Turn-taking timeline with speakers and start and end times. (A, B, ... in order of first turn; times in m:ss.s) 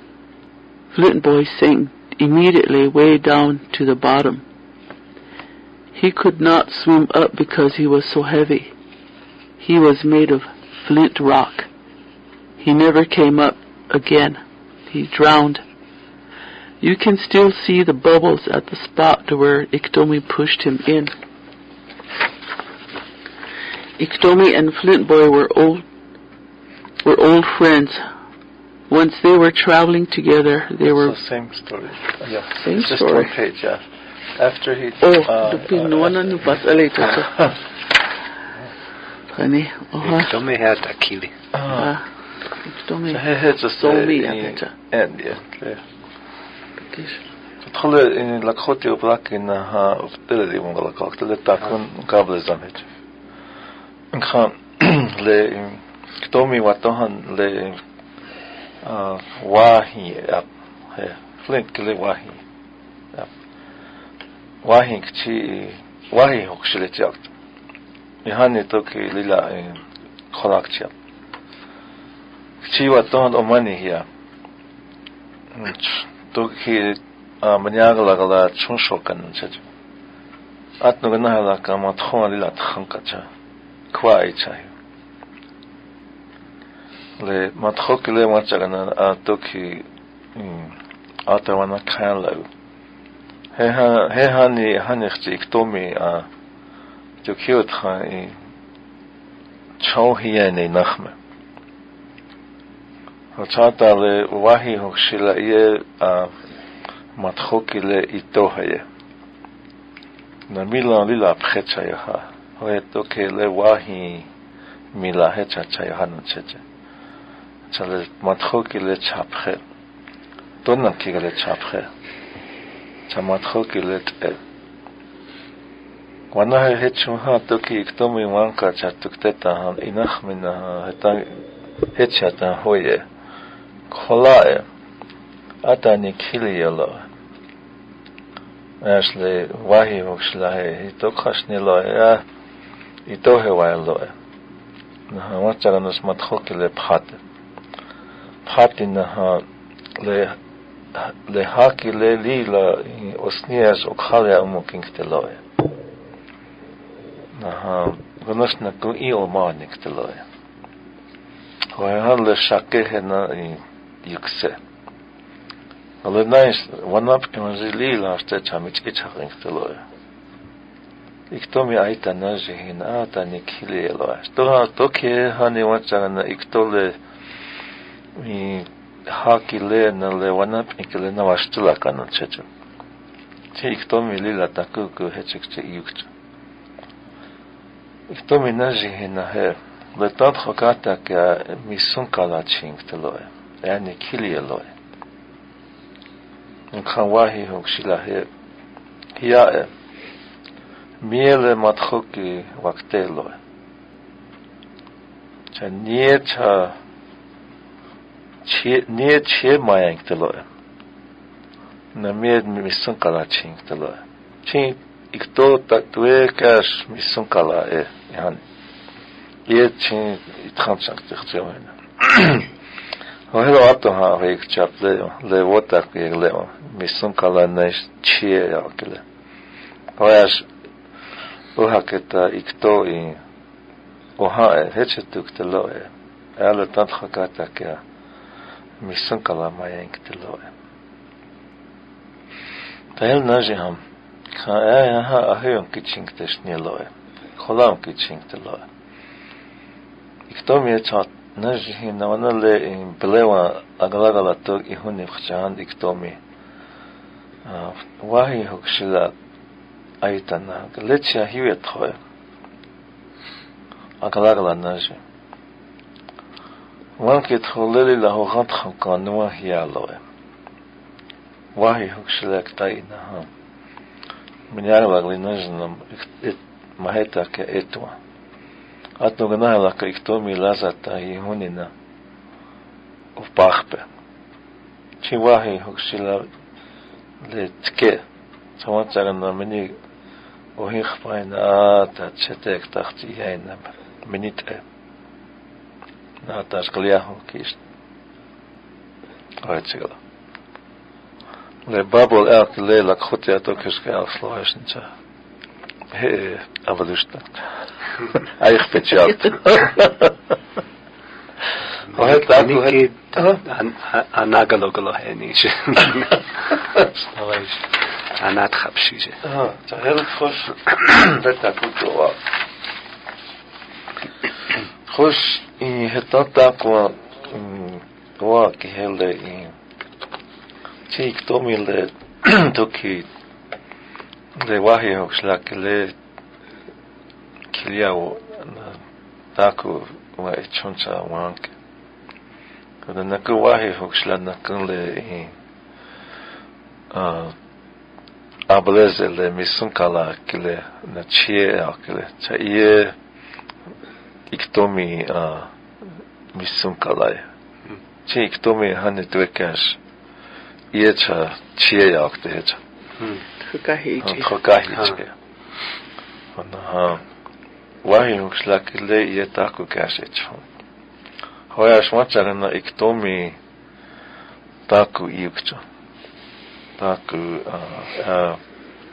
0:00.9-0:04.4 A
0:05.9-0:08.7 A
0:09.6-0:11.7 A
0:12.6-0:15.6 A
0:16.8-0:21.1 A
0:24.0-0:25.8 A
0:27.0-0:28.0 A
0:28.9-0:31.1 A
0:30.8-0:33.8 B
0:32.6-0:33.3 A
0:34.4-0:36.5 B
0:35.0-0:37.4 A
0:39.3-0:40.3 A
0:40.0-0:41.4 C
0:41.5-0:41.9 B
0:41.7-0:42.0 A
0:42.6-0:43.2 A
0:43.1-0:45.8 B
0:43.8-0:44.7 A
0:46.9-0:47.2 A
0:47.6-0:52.9 B
0:54.1-0:57.8 B
0:58.8-1:02.4 B
1:04.6-1:07.3 B
1:08.2-1:10.9 B
1:12.6-1:14.0 B
1:15.5-1:19.6 B
1:20.8-1:23.3 B
1:23.9-1:24.7 B
1:27.2-1:32.5 B
1:33.6-1:36.3 B
1:37.2-1:38.4 B
1:39.8-1:41.1 B
1:43.4-1:46.3 B
1:47.2-1:48.8 B
1:50.5-1:54.3 B
1:54.9-1:56.6 B
1:57.7-1:59.6 B
2:00.6-2:01.9 B
2:03.1-2:04.4 B
2:06.3-2:13.0 B
2:13.9-2:14.6 B
2:15.6-2:17.1 B
2:18.8-2:22.2 B
2:23.1-2:24.1 B
2:25.1-2:27.2 B
2:28.4-2:29.4 B
2:30.0-2:30.4 B
2:30.9-2:35.4 B
2:37.3-2:40.2 B
2:41.7-2:44.6 B
2:46.0-2:49.8 B
2:51.3-2:57.0 B
2:58.2-3:02.4 B
3:03.5-3:06.1 B
3:08.1-3:14.7 B
3:16.7-3:18.3 B
3:19.2-3:19.7 B
3:21.0-3:23.4 B
3:25.5-3:26.8 B
3:28.4-3:30.4 B
3:31.9-3:38.4 B
3:39.5-3:42.5 B
3:43.3-3:49.0 B
3:50.0-3:50.5 B
3:51.6-3:53.2 B
3:54.2-3:57.8 B
3:58.8-4:00.5 B
4:03.0-4:03.8 B
4:04.3-4:08.7 B
4:10.3-4:16.2 B
4:17.4-4:19.1 B
4:20.0-4:22.0 B
4:24.0-4:25.0 B
4:27.0-4:30.0 B
4:31.6-4:33.3 B
4:34.5-4:38.0 B
4:39.0-4:41.7 B
4:43.2-4:43.8 B
4:45.0-4:46.3 B
4:47.2-4:48.0 B
4:48.6-4:49.7 B
4:50.6-4:54.6 B
4:56.2-4:57.6 B
4:59.4-5:00.0 B
5:01.7-5:04.9 B
5:05.9-5:07.4 B
5:08.0-5:10.2 B
5:11.9-5:17.6 C
5:11.9-5:13.4 B
5:18.1-5:19.2 C
5:19.2-5:22.2 B
5:24.9-5:29.5 B
5:30.9-5:33.1 B
5:34.4-5:35.9 B
5:37.5-5:38.8 B
5:39.3-5:41.5 B
5:42.8-5:45.3 B
5:46.9-5:47.4 B
5:48.5-5:52.9 B
5:54.3-5:55.5 B
5:56.3-5:57.2 B
5:58.0-5:59.8 B
6:00.7-6:02.6 B
6:03.4-6:04.3 A
6:04.0-6:05.1 B
6:06.4-6:07.0 B
6:07.8-6:10.4 B
6:11.5-6:13.4 B
6:14.7-6:15.6 B
6:16.8-6:18.4 B